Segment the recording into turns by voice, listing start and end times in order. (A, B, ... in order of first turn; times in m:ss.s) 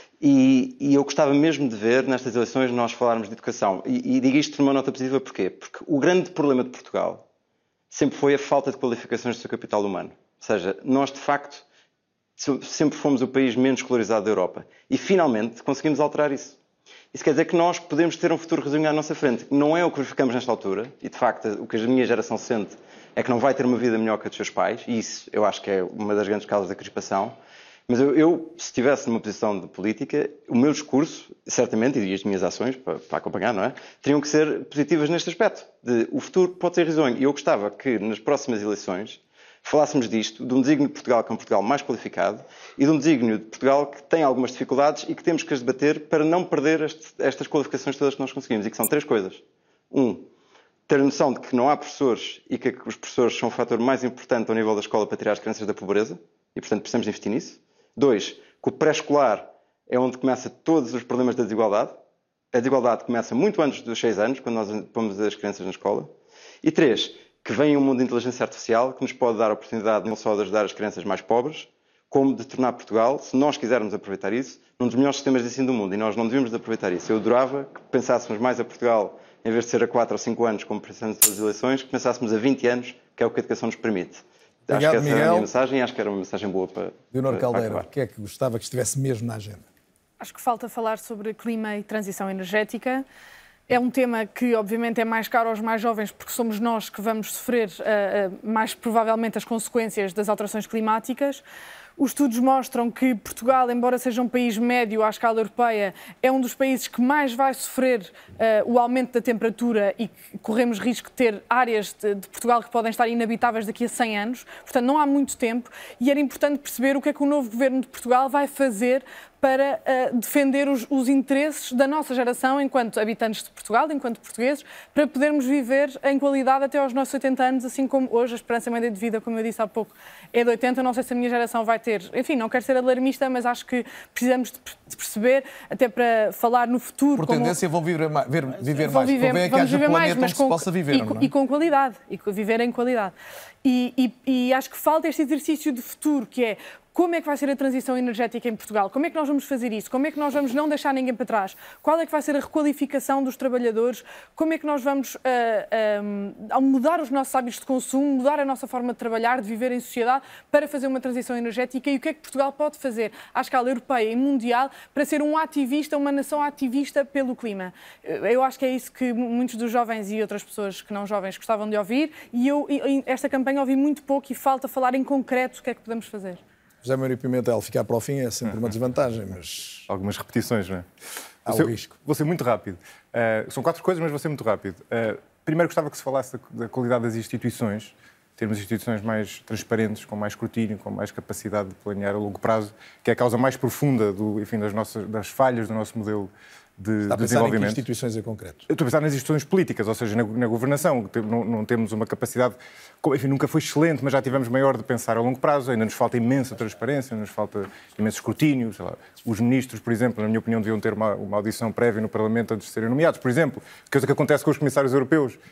0:00.2-0:07.2 A
0:07.9-0:11.6 A
0:12.4-0:16.6 A
0:17.1-0:27.4 A
0:27.9-0:50.3 A
0:50.9-1:02.0 A
1:02.5-1:06.1 A
1:06.6-1:27.9 A
1:24.7-1:25.5 B
1:27.1-1:29.7 B
1:30.2-1:33.0 C
1:33.7-1:41.4 C
1:42.0-2:17.6 C
2:17.2-2:21.3 B
2:18.8-2:56.4 C
2:56.8-2:59.9 B
2:59.9-3:00.9 D
3:01.5-3:17.8 D
3:01.5-3:01.9 B
3:17.1-3:18.6 B
3:18.7-3:35.4 D